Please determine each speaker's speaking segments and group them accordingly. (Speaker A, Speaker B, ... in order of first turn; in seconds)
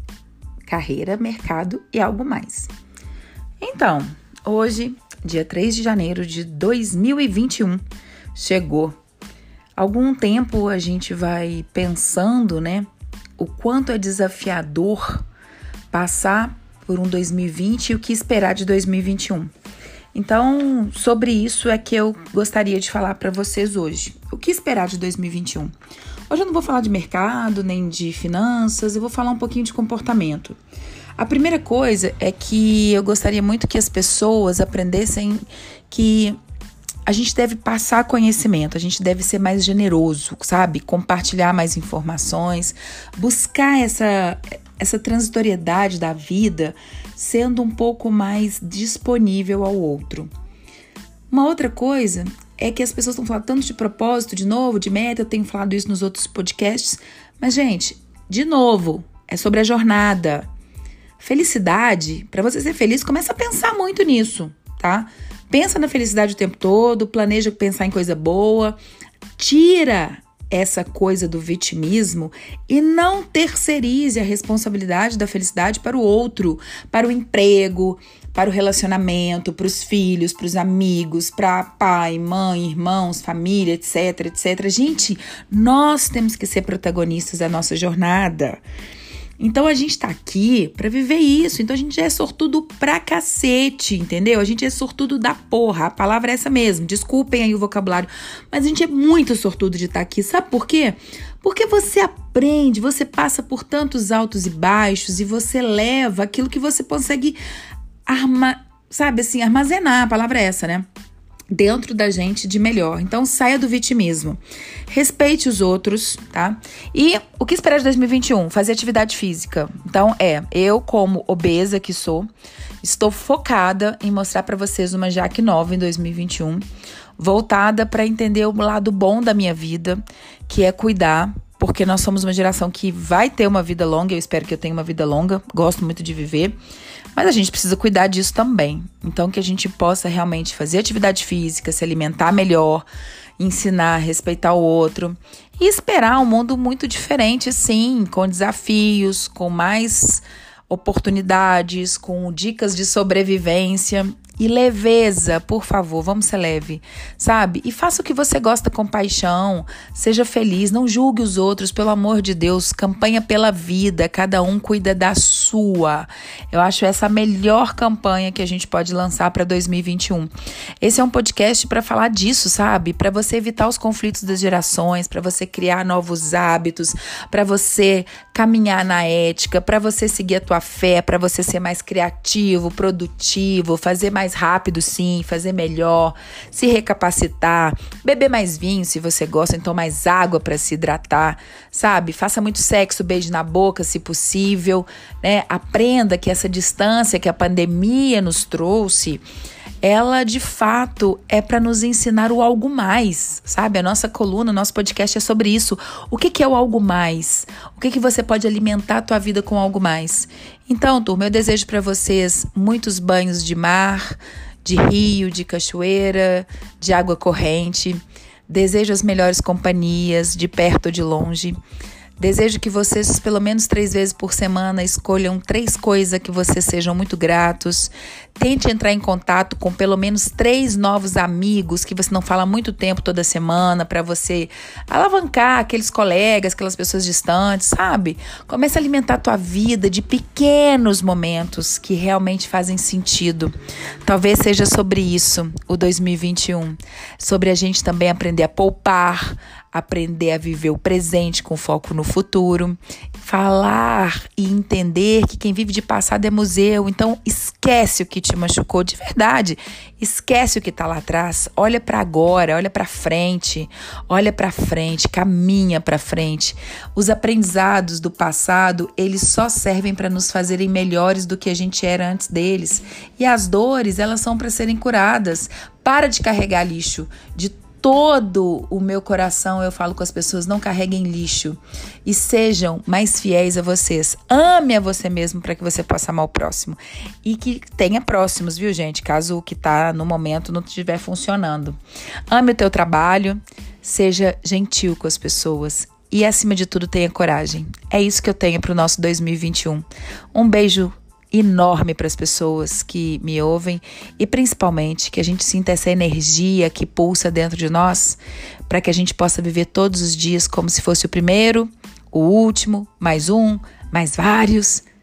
Speaker A: 0.7-2.7, 3.6-7.8, 8.3-9.0, 9.8-12.9, 13.4-15.2, 15.9-19.5, 20.1-25.7, 26.3-30.6, 31.2-36.4, 37.1-50.3, 51.3-60.5, 61.2-68.8, 69.4-88.6, 89.4-107.4, 108.1-110.9, 111.5-122.3, 122.8-126.6, 127.2-136.6, 137.2-142.8, 143.4-199.2, 199.8-221.6, 222.2-243.5, 244.1-291.8, 292.3-314.8